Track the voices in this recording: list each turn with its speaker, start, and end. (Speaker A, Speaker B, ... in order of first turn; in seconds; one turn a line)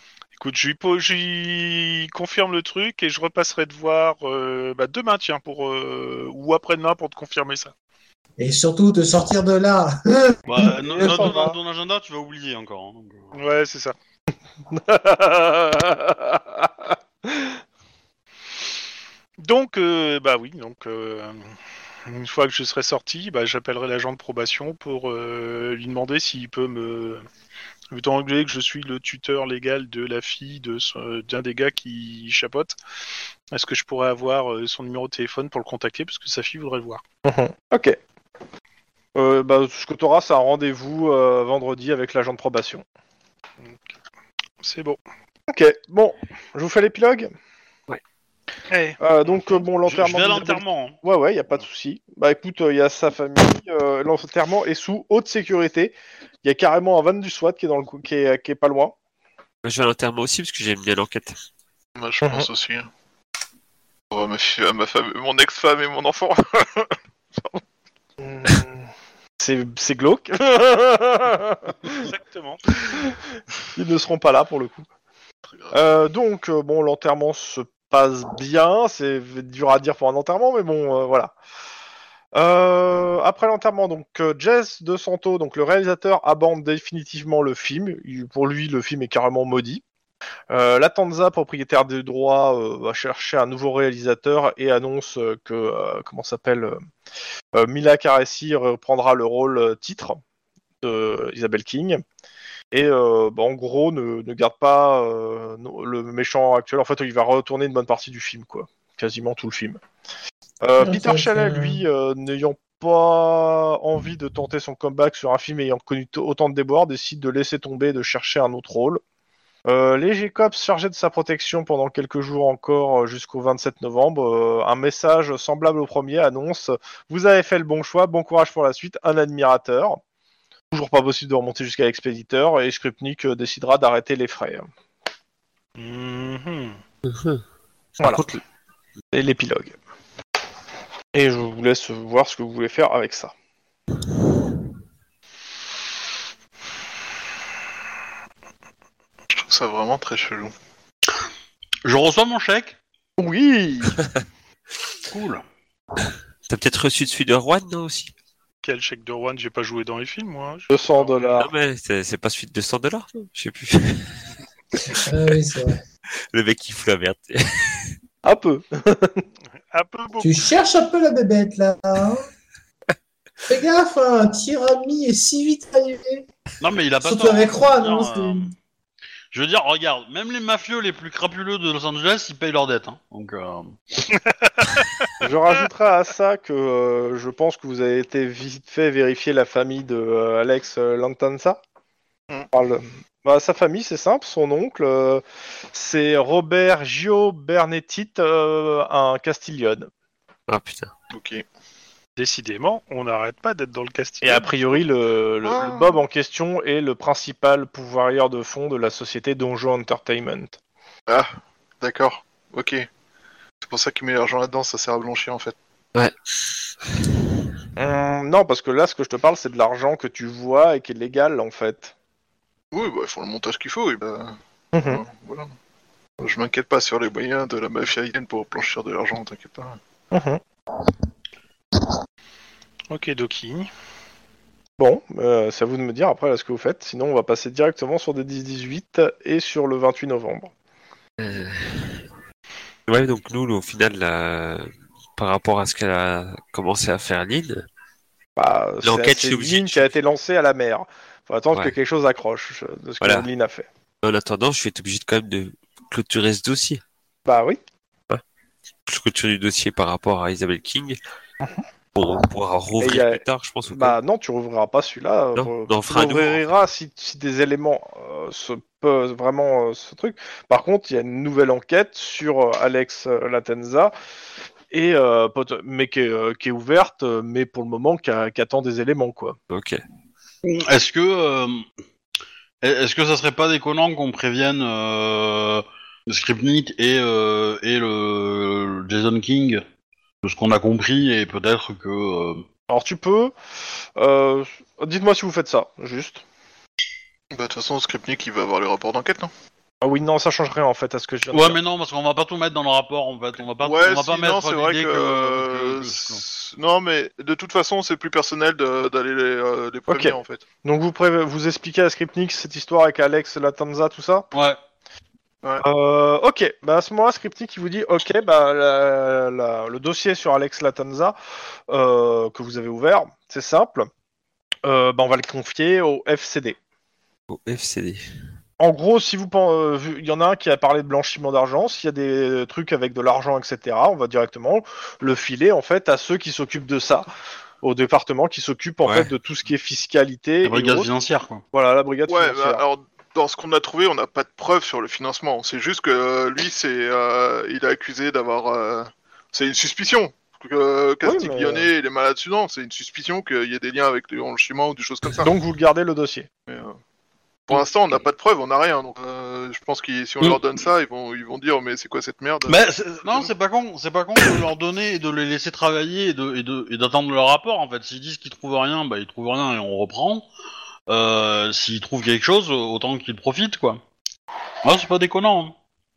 Speaker A: 0.4-7.7
Speaker B: 8.4-11.4
Speaker C: 10.5-13.3
Speaker D: 10.9-11.6
Speaker A: 13.3-13.9
Speaker D: 14.7-17.6
Speaker A: 19.4-21.5
Speaker A: 22.0-27.2
Speaker A: 27.9-32.8
Speaker A: 33.5-37.0
Speaker D: 37.2-38.0
Speaker D: 39.1-42.8
Speaker A: 44.6-45.0
Speaker D: 45.5-47.3
Speaker A: 48.7-49.0
Speaker D: 49.0-58.9
Speaker C: 49.8-51.0
Speaker E: 59.6-61.4
Speaker F: 62.0-62.9
Speaker F: 64.1-67.6
Speaker D: 68.2-72.1
Speaker A: 71.9-72.6
Speaker D: 72.8-73.2
Speaker D: 73.7-74.9
Speaker D: 75.7-81.3
Speaker D: 82.3-89.8
Speaker D: 90.5-96.8
Speaker D: 97.5-100.2
Speaker D: 100.8-102.0
Speaker D: 102.7-109.8
Speaker D: 110.6-119.0
Speaker B: 110.8-111.8
Speaker D: 119.7-130.0
Speaker D: 130.7-134.7
Speaker A: 135.8-136.8
Speaker E: 137.0-137.4
Speaker E: 138.0-138.4
Speaker D: 138.0-138.2
Speaker D: 139.1-139.8
Speaker D: 141.1-143.3
Speaker F: 149.3-150.5
Speaker C: 151.8-152.8
Speaker D: 153.2-154.0
Speaker C: 155.1-155.4
Speaker E: 156.5-158.1
Speaker A: 158.6-161.4
Speaker D: 160.7-161.5
Speaker E: 161.3-164.3
Speaker B: 165.0-165.8
Speaker E: 166.3-167.9
Speaker D: 168.2-169.2
Speaker A: 169.7-170.5
Speaker B: 170.2-172.2
Speaker B: 173.5-176.2
Speaker C: 176.6-178.5
Speaker B: 177.0-178.5
Speaker C: 179.3-183.8
Speaker A: 184.4-185.1
Speaker D: 185.2-191.6
Speaker D: 192.5-199.9
Speaker E: 200.5-200.9
Speaker F: 201.1-201.4
Speaker A: 202.2-204.8
Speaker D: 204.2-210.6
Speaker F: 205.4-206.0
Speaker F: 211.1-212.9
Speaker F: 213.6-215.5
Speaker D: 217.8-221.9
Speaker F: 222.7-225.5
Speaker D: 224.7-225.0
Speaker F: 226.2-229.8
Speaker D: 230.1-230.4
Speaker A: 232.9-233.7
Speaker D: 234.8-240.5
Speaker E: 241.2-242.0
Speaker E: 242.9-247.6
Speaker D: 248.4-253.7
Speaker E: 248.8-249.9
Speaker E: 253.0-253.3
Speaker E: 254.0-256.8
Speaker D: 257.2-257.6
Speaker E: 258.9-261.0
Speaker E: 261.9-264.0
Speaker D: 262.8-273.9
Speaker E: 265.4-266.5
Speaker D: 274.7-279.4
Speaker E: 279.5-279.8
Speaker C: 280.4-281.6
Speaker C: 282.6-289.6
Speaker C: 290.2-292.4
Speaker D: 292.7-293.3
Speaker D: 294.0-296.2
Speaker F: 297.3-299.3
Speaker D: 299.8-301.6
Speaker C: 301.3-306.2
Speaker F: 303.6-310.4
Speaker D: 309.9-314.3
Speaker C: 314.3-314.6
Speaker D: 315.6-321.1
Speaker D: 321.7-323.9
Speaker D: 324.6-326.6
Speaker E: 327.3-328.0
Speaker D: 328.6-337.1
Speaker D: 337.6-340.9
Speaker E: 338.8-339.1
Speaker C: 340.4-341.4
Speaker D: 341.5-342.6
Speaker F: 342.1-355.3
Speaker D: 351.0-351.7
Speaker D: 355.2-356.3
Speaker F: 356.5-356.8
Speaker F: 357.5-363.3
Speaker C: 362.5-370.2
Speaker C: 370.9-373.8
Speaker C: 374.6-375.5